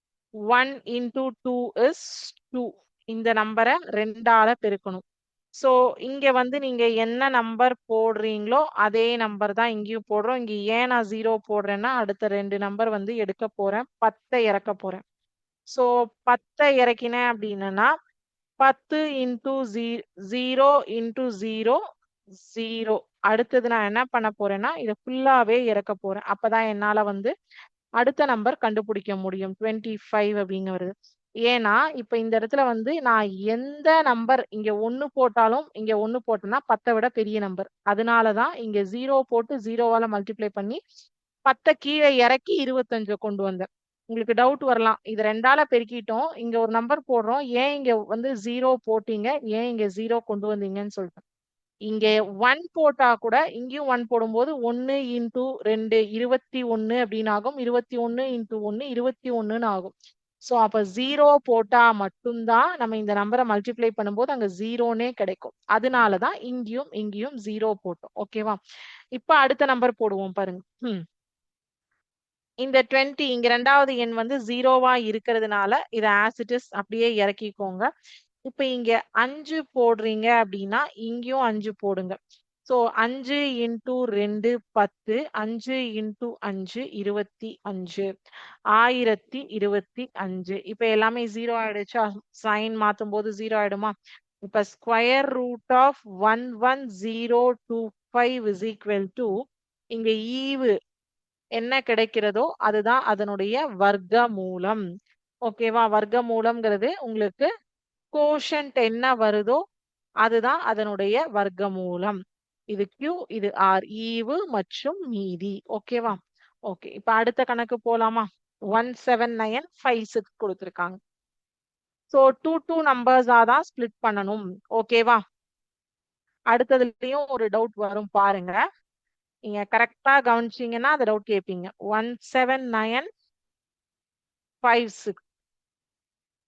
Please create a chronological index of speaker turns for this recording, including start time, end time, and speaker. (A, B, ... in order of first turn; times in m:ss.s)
0:00.5-0:05.0 A
0:05.6-0:15.0 A
0:15.7-0:17.9 A
0:18.6-0:21.8 A
0:22.4-0:27.3 A
0:28.0-0:30.9 A
0:31.4-0:40.8 A
0:41.5-0:51.2 A
0:51.9-0:59.9 A
1:00.4-1:08.6 A
1:09.2-1:11.0 A
1:12.6-1:17.9 A
1:18.5-1:28.1 A
1:28.8-1:33.9 A
1:34.4-1:39.3 A
1:39.9-1:40.7 A
1:41.6-1:44.8 A
1:45.4-1:47.5 A
1:48.1-1:49.6 A
1:50.2-1:52.2 A
1:52.7-1:56.2 A
1:56.7-2:01.0 A
2:02.1-2:05.2 A
2:06.5-2:08.6 A
2:09.5-2:13.1 A
2:14.6-2:15.2 A